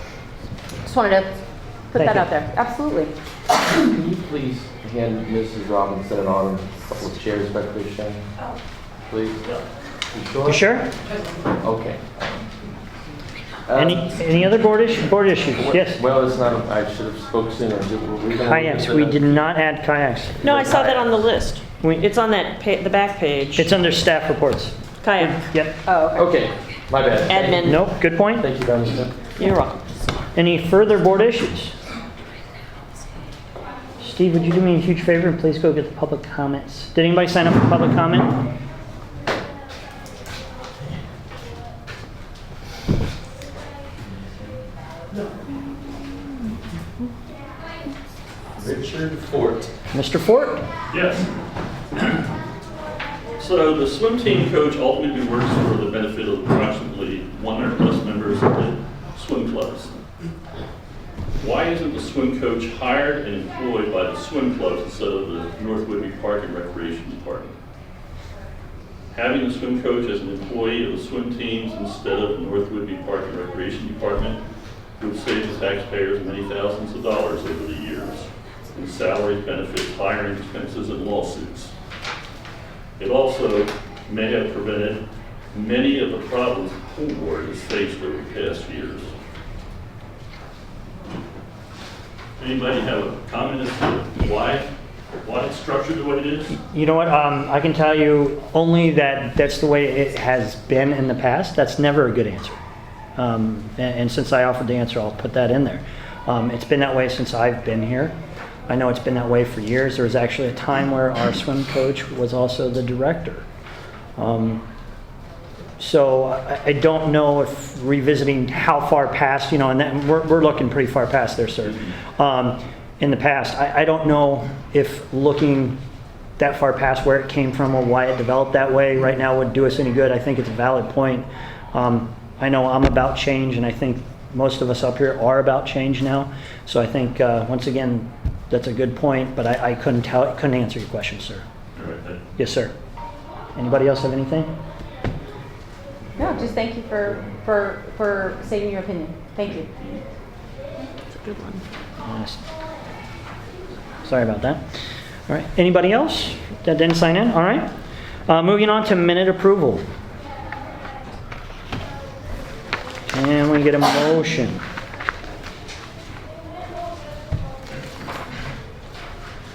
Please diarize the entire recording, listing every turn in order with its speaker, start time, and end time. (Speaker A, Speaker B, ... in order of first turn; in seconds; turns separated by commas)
Speaker A: 0.8-1.3, Speaker A: 1.9-3.1, Speaker B: 1.9-2.3, Speaker C: 3.6-8.2, Speaker C: 9.1-9.6, Speaker C: 10.1-10.6, Speaker B: 10.4-10.9, Speaker C: 11.6-12.2, Speaker C: 13.7-14.1, Speaker B: 13.7-16.0, Speaker C: 15.7-19.3, Speaker B: 18.4-20.7, Speaker D: 20.4-23.7, Speaker C: 20.6-21.0, Speaker B: 23.6-25.8, Speaker D: 25.0-25.4, Speaker A: 25.8-26.3, Speaker C: 26.1-27.8, Speaker D: 27.3-27.8, Speaker B: 27.6-28.4, Speaker C: 28.3-29.3, Speaker D: 29.3-29.8, Speaker B: 30.3-31.7, Speaker B: 34.0-38.4, Speaker C: 48.6-49.7, Speaker B: 49.9-50.7, Speaker E: 50.9-51.3, Speaker E: 53.4-59.9, Speaker E: 61.4-67.5, Speaker E: 69.1-74.4, Speaker E: 75.0-81.7, Speaker E: 83.0-85.0, Speaker E: 85.5-89.1, Speaker E: 92.4-94.7, Speaker E: 95.2-96.5, Speaker B: 96.5-102.6, Speaker B: 103.2-108.1, Speaker B: 108.7-113.5, Speaker B: 114.2-114.6, Speaker B: 115.8-125.8, Speaker B: 126.4-141.4, Speaker E: 141.8-142.2, Speaker B: 142.4-142.7, Speaker B: 143.6-144.5, Speaker A: 146.2-149.7, Speaker D: 151.1-151.6, Speaker B: 152.0-152.4, Speaker B: 154.0-154.6, Speaker B: 155.3-157.7, Speaker B: 158.3-159.8, Speaker B: 163.1-164.6